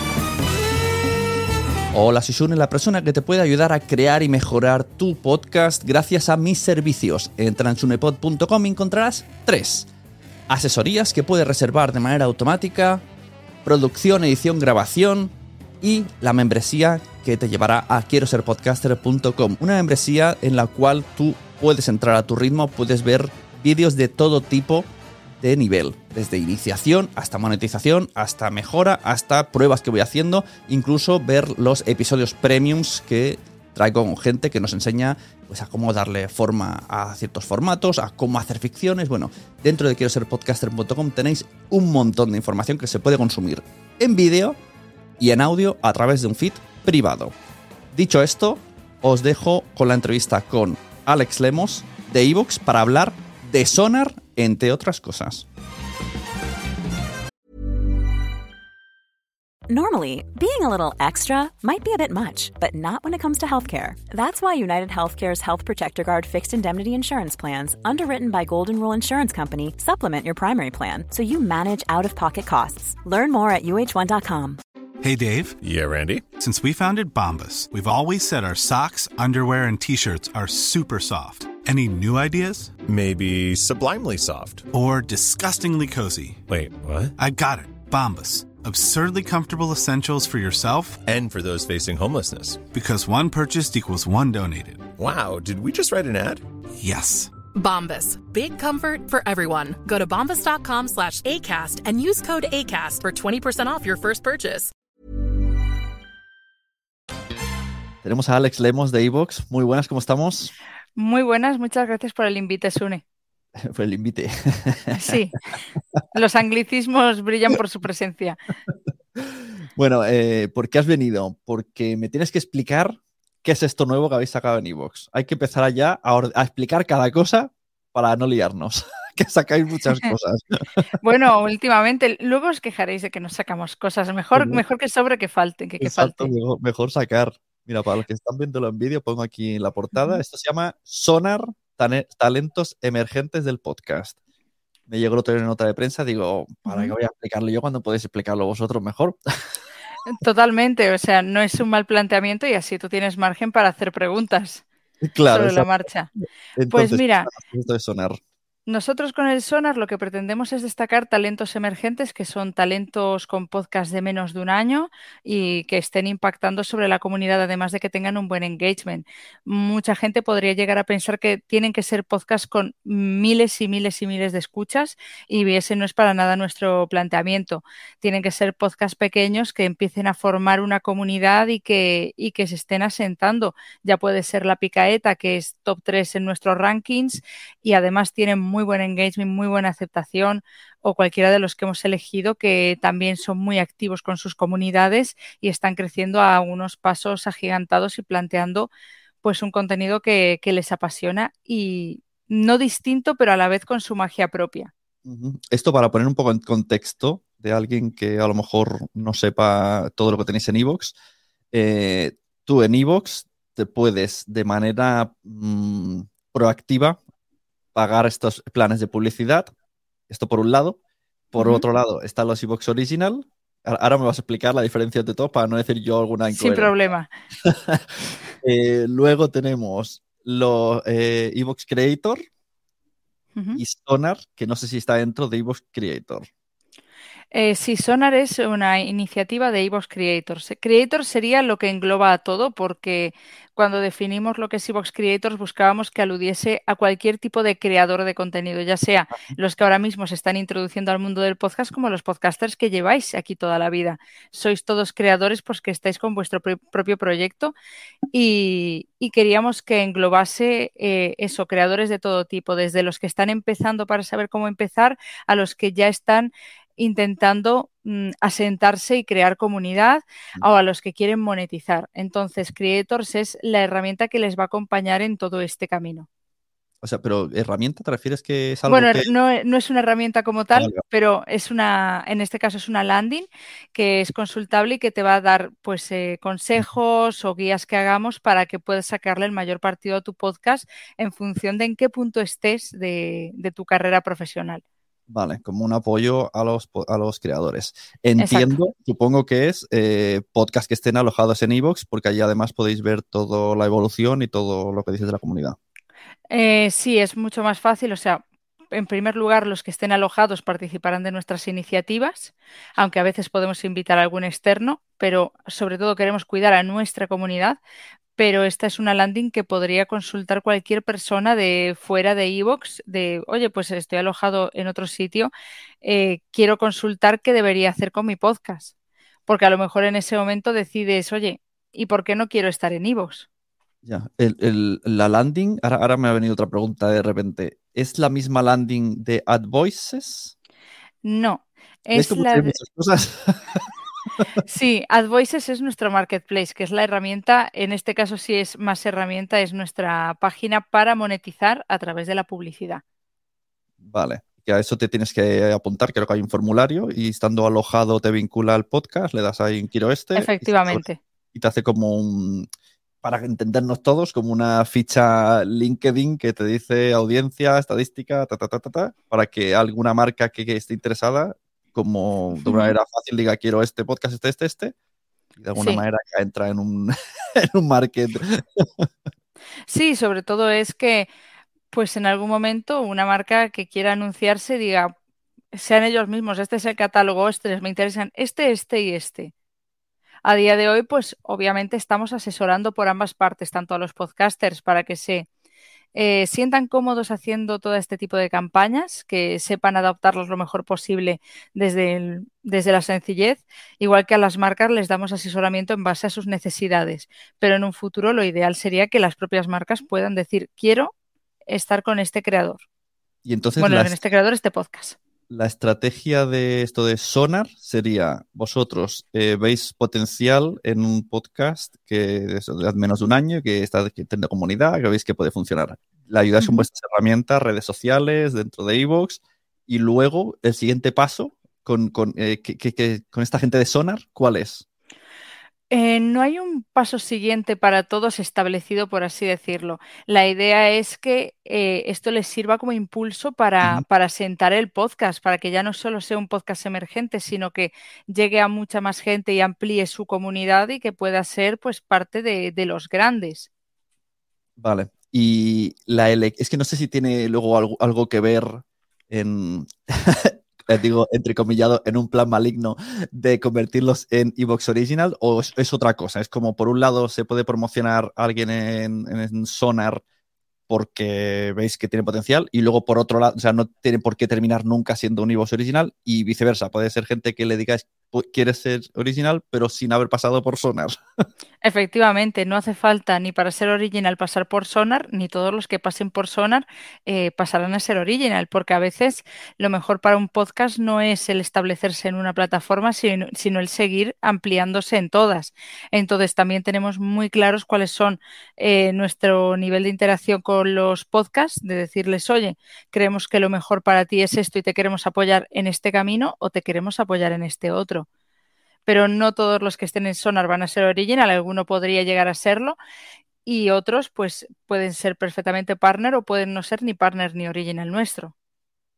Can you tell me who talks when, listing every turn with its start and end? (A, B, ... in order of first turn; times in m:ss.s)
0:01.9-0:09.9 A
0:10.5-0:13.0 A
0:13.6-0:24.9 A
0:25.4-0:44.6 A
0:45.2-0:47.3 A
0:47.9-0:55.5 A
0:59.7-1:14.6 B
1:15.0-1:15.6 C
1:15.6-1:16.2 D
1:16.4-1:22.7 C
1:22.9-1:24.7 D
1:24.7-1:26.4 C
1:26.5-1:27.1 D
1:27.2-1:31.0 C
1:31.0-1:32.6 D
1:32.7-1:34.9 C
1:35.0-1:36.4 D
1:36.8-1:37.3 C
1:37.6-1:44.7 E
1:48.0-1:50.5 A
1:51.0-1:53.0 F
1:53.6-1:55.2 A
1:54.9-1:55.3 F
1:56.1-1:58.4 F
1:59.2-2:10.9 A
2:11.0-2:16.3 F
2:14.4-2:14.6 A
2:15.8-2:24.2 A
2:19.9-2:20.2 F
2:24.9-2:29.5 A
2:26.7-2:26.9 F
2:30.0-2:34.6 F
2:35.0-2:35.8 A
2:35.3-2:36.1 F
2:36.6-2:38.2 A
2:36.7-2:37.3 F
2:38.7-3:18.7 F
3:19.2-3:24.7 F
3:25.0-3:31.0 A
3:31.5-3:37.0 A
3:37.8-3:39.5 A
3:40.1-3:40.8 A
3:41.3-3:46.7 A
3:41.4-3:41.6 F
3:46.3-3:47.1 F
3:47.4-3:47.8 A
3:48.4-3:52.2 A
3:53.4-3:53.6 F
3:53.5-3:56.3 A
3:57.3-4:17.5 F
4:18.1-4:36.1 F
4:36.8-4:39.1 A
4:38.7-4:54.6 F
4:40.5-4:40.8 A
4:55.1-5:05.6 A
4:58.2-4:58.6 F
5:06.3-5:17.6 F
5:18.2-5:25.3 F
5:25.8-5:28.7 F
5:29.3-5:33.3 F
5:33.8-5:40.3 A
5:41.0-5:42.6 F
5:42.0-5:44.2 A
5:44.4-5:52.8 F
5:53.8-6:00.8 A
6:00.2-6:01.0 F
6:01.3-6:02.5 A
6:03.0-6:14.8 A
6:12.4-6:12.7 F
6:15.4-6:18.9 A
6:15.6-6:15.8 F
6:19.7-6:21.1 F
6:21.7-6:24.9 F
6:25.5-6:29.3 F
6:30.2-6:35.3 F
6:36.0-6:50.9 F
6:51.5-6:52.6 F
6:53.2-6:54.0 A
6:53.6-6:55.0 F
6:55.3-7:14.6 A
7:06.4-7:06.7 F
7:15.7-7:33.5 F
7:34.6-7:50.0 A
7:50.7-8:01.0 A
8:01.6-8:28.1 F
8:28.9-8:32.8 F
8:33.5-8:38.3 F